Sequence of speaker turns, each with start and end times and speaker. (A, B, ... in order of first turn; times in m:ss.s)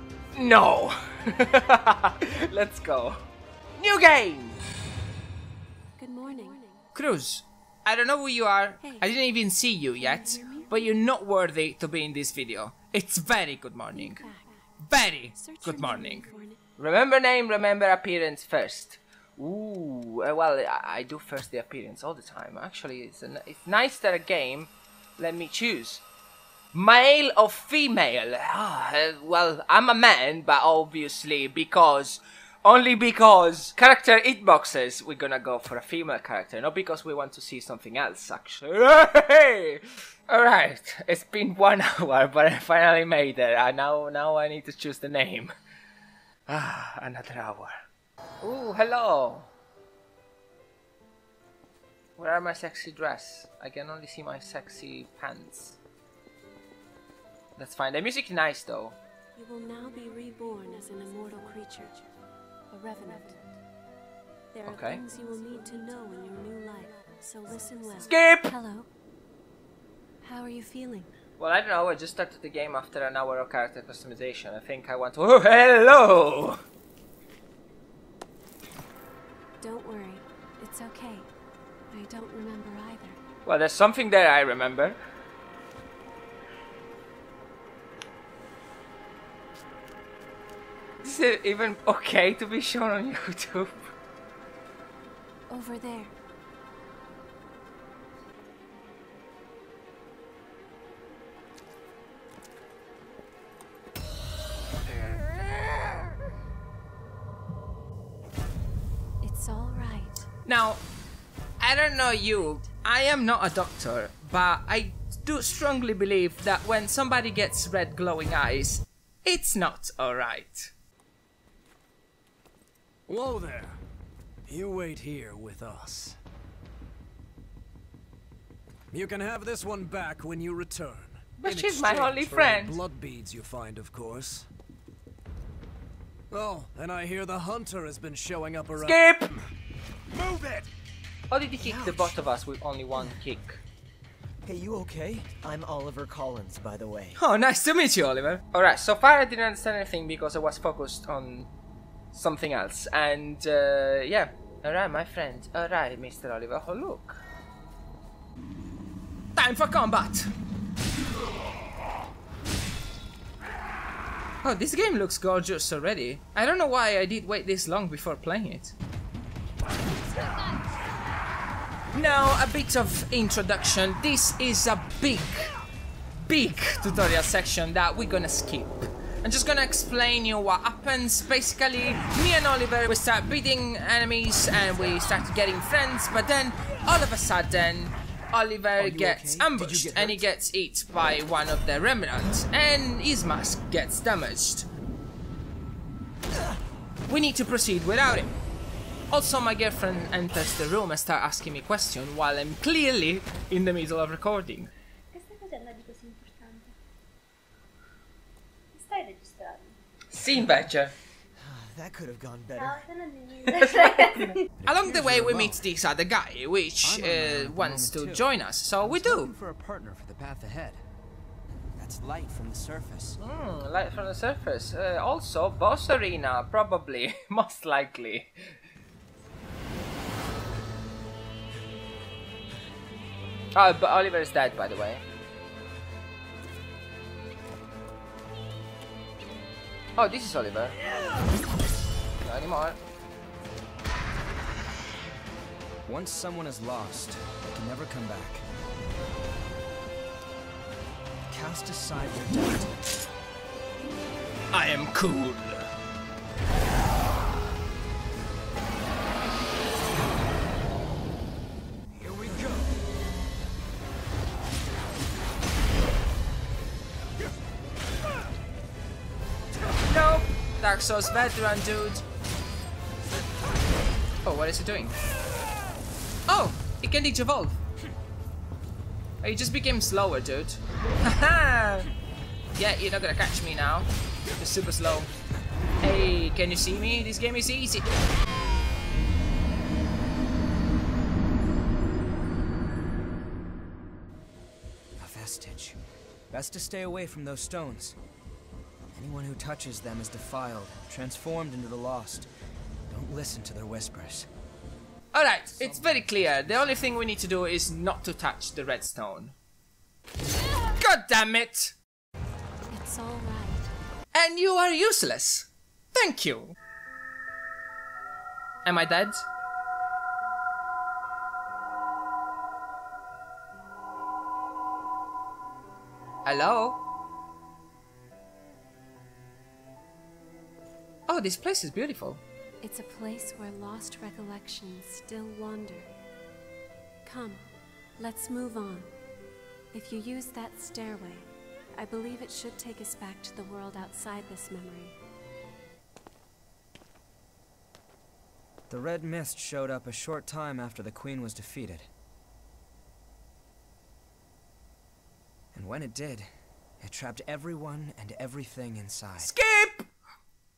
0:00.3-0:03.2 A
0:03.8-0:04.6 A
0:06.0-0:06.8 B
0:06.9-0:14.2 A
0:10.0-0:10.7 B
0:13.9-0:14.6 B
0:14.8-0:16.2 A
0:15.3-0:16.6 B
0:16.8-0:26.0 A
0:26.7-0:45.5 A
0:46.5-0:47.7 A
0:48.4-0:49.5 A
0:52.2-0:55.8 A
0:57.6-0:59.0 A
0:59.4-1:02.0 B
1:02.7-1:03.5 B
1:04.5-1:08.9 B
1:04.6-1:05.0 A
1:08.0-1:08.5 A
1:10.2-1:11.1 B
1:11.4-1:16.6 A
1:19.6-1:21.3 B
1:21.9-1:23.2 B
1:23.4-1:25.0 A
1:31.0-1:33.8 A
1:35.5-1:36.1 B
1:49.2-1:50.2 B
1:50.4-1:50.8 A
1:51.6-2:00.7 A
2:03.1-2:03.8 C
2:04.5-2:06.2 C
2:08.9-2:14.5 C
2:11.4-2:12.8 A
2:16.3-2:19.4 C
2:18.8-2:19.3 A
2:20.1-2:20.7 C
2:21.3-2:23.6 A
2:21.7-2:22.0 D
2:24.4-2:27.2 D
2:27.2-2:31.5 A
2:32.1-2:37.2 A
2:39.4-2:40.3 A
2:44.4-2:48.7 A
2:51.9-2:55.5 A
2:56.2-3:14.7 A
3:08.8-3:10.2 E
3:17.1-3:18.3 A
3:19.1-3:24.7 A
3:25.1-3:26.7 F
3:28.7-3:29.8 F
3:30.1-3:30.9 A
3:31.5-3:32.8 D
3:32.6-3:34.4 F
3:33.4-3:39.3 A
3:34.6-3:35.6 E
3:36.8-3:40.8 E
3:41.8-3:43.2 E
3:43.2-3:48.3 A
3:53.5-3:55.0 A
4:00.0-4:00.8 A
4:02.2-4:02.8 A
4:05.8-4:08.4 E
4:11.3-4:12.7 E
4:14.5-4:15.7 A
4:29.8-4:32.0 A
4:34.2-4:35.0 A
4:36.3-4:37.6 A
4:39.2-4:41.9 A
4:42.5-4:45.1 A
4:45.8-4:47.8 A
4:55.0-4:55.8 E
4:56.3-4:58.0 E
4:58.9-5:02.3 E
5:02.9-5:04.3 E
5:05.1-5:09.3 A
5:05.6-5:07.0 E
5:10.8-5:11.7 A
5:12.7-5:13.7 B
5:14.1-5:16.5 A
5:18.6-5:19.2 A
5:26.2-5:26.8 A
5:31.1-5:32.2 A
5:32.6-5:35.9 B
5:37.0-5:37.4 B
5:38.0-5:38.9 B
5:39.7-5:44.9 B
5:48.7-5:51.9 E
5:55.5-5:56.3 E
5:56.8-5:59.3 E
5:59.2-5:59.9 A